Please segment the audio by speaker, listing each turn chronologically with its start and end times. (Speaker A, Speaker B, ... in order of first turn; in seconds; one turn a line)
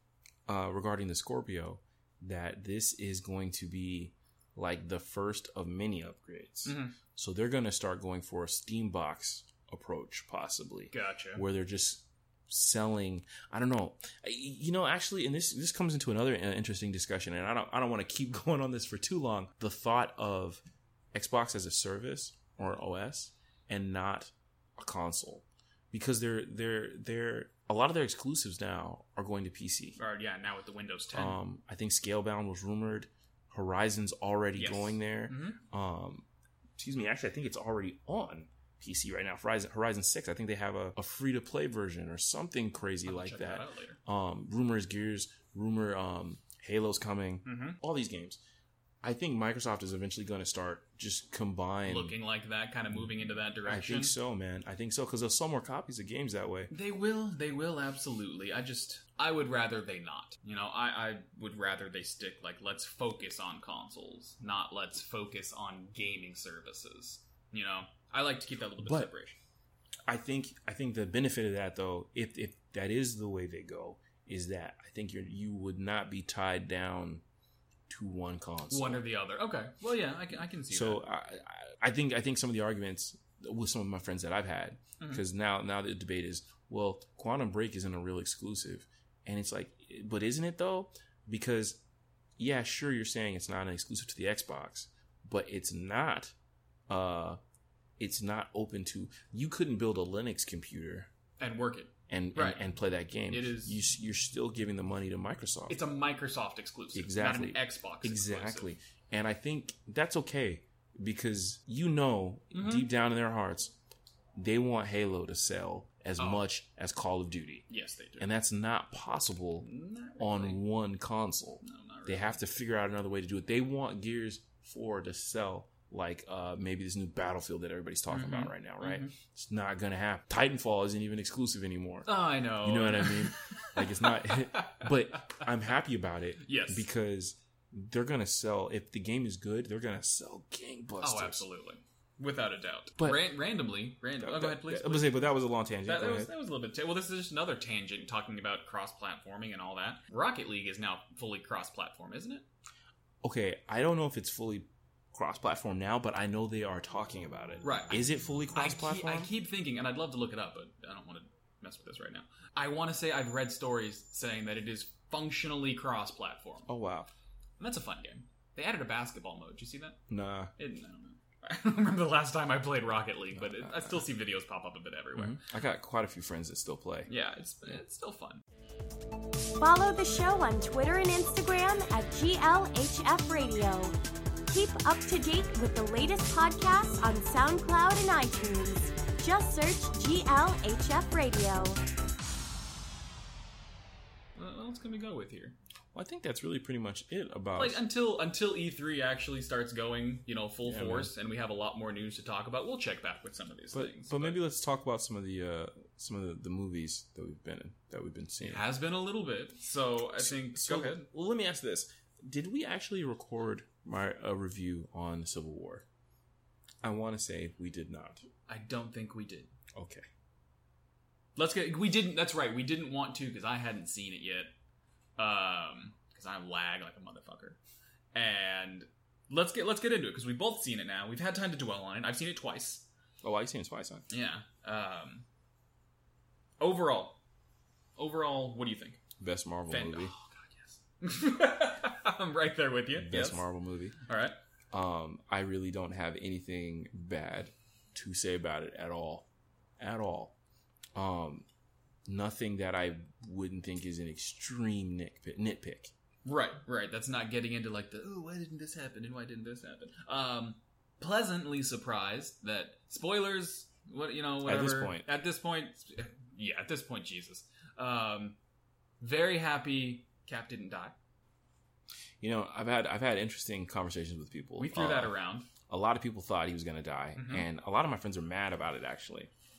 Speaker A: 0.5-20.6
Speaker B: 6.6-6.9
Speaker B: 10.9-11.4
Speaker A: 21.1-30.0
Speaker B: 30.0-31.4
Speaker A: 31.1-36.2
Speaker B: 34.6-35.6
Speaker A: 36.8-48.4
Speaker B: 43.0-44.0
Speaker B: 47.4-47.8
Speaker A: 49.0-52.1
Speaker B: 51.9-54.1
Speaker A: 53.6-56.7
Speaker B: 56.7-69.4
Speaker A: 68.8-69.1
Speaker A: 70.1-77.2
Speaker A: 77.9-79.0
Speaker B: 78.7-81.0
Speaker A: 80.7-91.8
Speaker A: 92.4-96.3
Speaker A: 96.9-97.4
Speaker A: 98.0-101.1
Speaker B: 101.4-102.6
Speaker A: 102.1-105.8
Speaker B: 103.3-103.8
Speaker B: 105.7-108.7
Speaker A: 106.9-113.7
Speaker B: 112.5-112.9
Speaker A: 114.3-117.7
Speaker B: 116.2-116.4
Speaker B: 117.7-118.3
Speaker A: 118.2-119.7
Speaker B: 119.6-120.6
Speaker A: 120.2-141.4
Speaker B: 121.6-122.4
Speaker B: 128.1-129.1
Speaker B: 132.1-135.4
Speaker B: 136.4-136.8
Speaker B: 141.0-145.2
Speaker A: 143.0-143.2
Speaker A: 144.2-146.3
Speaker B: 145.8-152.4
Speaker A: 153.2-159.3
Speaker B: 157.6-158.0
Speaker B: 158.6-166.7
Speaker A: 166.7-167.1
Speaker B: 167.6-170.0
Speaker A: 170.1-170.5
Speaker B: 170.6-175.4
Speaker A: 173.3-174.1
Speaker A: 175.1-177.1
Speaker B: 177.1-178.4
Speaker C: 179.6-183.9
Speaker C: 184.5-191.8
Speaker B: 194.3-195.6
Speaker A: 195.9-197.8
Speaker B: 197.6-204.4
Speaker A: 200.6-201.1
Speaker A: 203.7-208.6
Speaker B: 208.4-211.1
Speaker A: 210.2-215.8
Speaker A: 216.8-218.2
Speaker B: 218.5-219.5
Speaker A: 219.7-220.1
Speaker B: 221.3-224.5
Speaker B: 225.2-227.6
Speaker B: 228.1-232.9
Speaker A: 233.2-234.0
Speaker B: 234.1-235.2
Speaker B: 236.6-237.2
Speaker B: 238.0-239.0
Speaker A: 239.2-240.1
Speaker B: 239.7-243.5
Speaker A: 242.9-243.9
Speaker B: 244.0-244.3
Speaker A: 244.7-249.3
Speaker A: 249.8-250.3
Speaker A: 250.9-251.4
Speaker A: 252.1-255.9
Speaker B: 256.2-268.4
Speaker A: 264.4-265.1
Speaker B: 269.0-270.9
Speaker A: 272.2-279.3
Speaker B: 274.6-275.5
Speaker B: 277.1-277.4